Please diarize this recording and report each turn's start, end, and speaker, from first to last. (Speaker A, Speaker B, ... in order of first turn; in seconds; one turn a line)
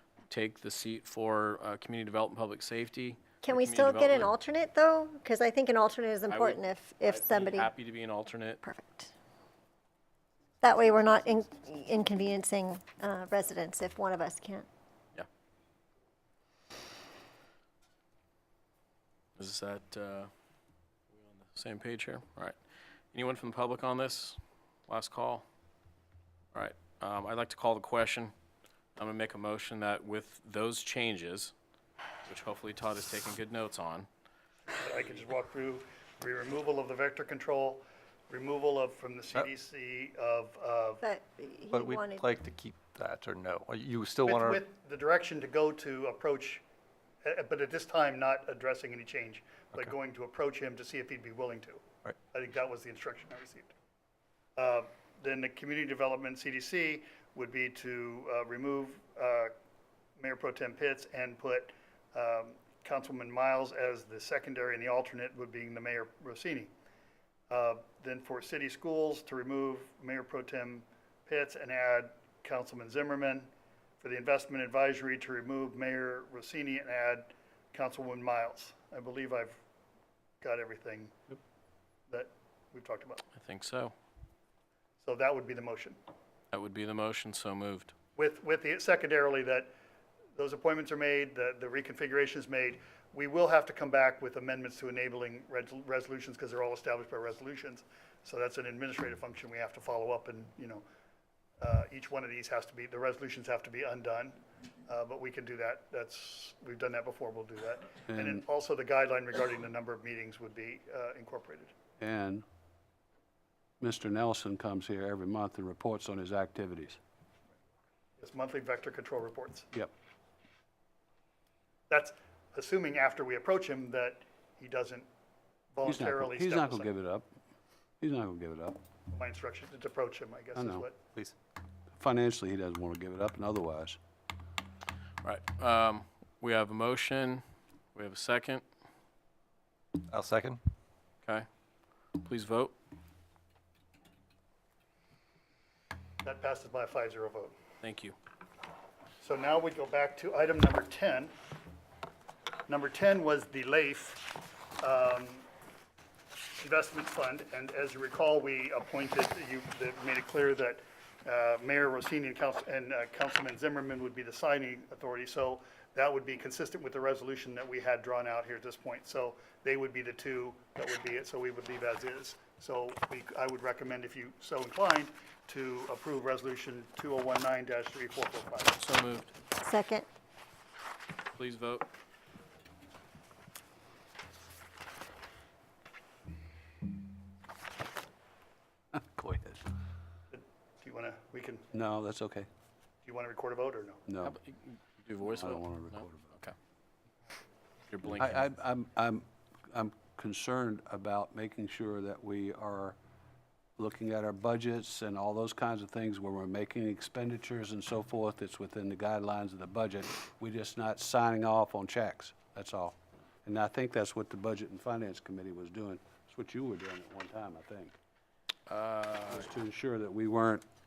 Speaker A: 0.3-4.3
Speaker B: 3.4-7.7
Speaker A: 6.3-8.6
Speaker B: 8.6-9.1
Speaker B: 10.6-14.7
Speaker A: 19.4-20.3
Speaker A: 21.1-22.6
Speaker A: 23.1-25.4
Speaker A: 26.5-28.3
Speaker A: 29.0-31.5
Speaker A: 32.2-34.1
Speaker C: 34.7-41.0
Speaker B: 41.0-42.2
Speaker D: 41.7-44.6
Speaker C: 44.2-46.6
Speaker C: 47.2-53.7
Speaker C: 54.5-59.5
Speaker C: 60.2-66.7
Speaker C: 67.5-73.5
Speaker C: 74.0-79.6
Speaker C: 80.4-81.2
Speaker C: 82.1-83.2
Speaker A: 83.3-83.9
Speaker C: 85.0-86.0
Speaker A: 86.5-87.9
Speaker C: 88.2-89.7
Speaker C: 90.3-100.8
Speaker C: 101.6-111.7
Speaker E: 108.1-108.4
Speaker E: 112.0-112.4
Speaker E: 113.8-117.0
Speaker C: 118.2-119.7
Speaker C: 121.9-125.0
Speaker C: 125.7-126.9
Speaker E: 125.8-127.3
Speaker E: 128.0-128.8
Speaker C: 129.1-130.9
Speaker E: 130.6-130.8
Speaker E: 131.9-134.0
Speaker A: 135.2-137.4
Speaker A: 137.9-138.6
Speaker D: 140.1-140.6
Speaker A: 142.2-142.7
Speaker C: 146.2-147.5
Speaker A: 147.8-148.2
Speaker C: 149.2-151.3
Speaker C: 152.7-155.4
Speaker C: 156.6-178.8
Speaker A: 178.8-179.3
Speaker B: 179.6-180.1
Speaker A: 181.3-181.8
Speaker E: 188.9-189.6
Speaker C: 190.3-191.7
Speaker E: 191.7-192.5
Speaker C: 193.0-194.1
Speaker E: 194.1-194.4
Speaker A: 194.2-196.5
Speaker E: 195.2-196.3
Speaker A: 197.9-198.4
Speaker E: 198.2-203.0
Speaker E: 203.8-217.9
Speaker A: 218.7-219.5
Speaker E: 219.3-220.6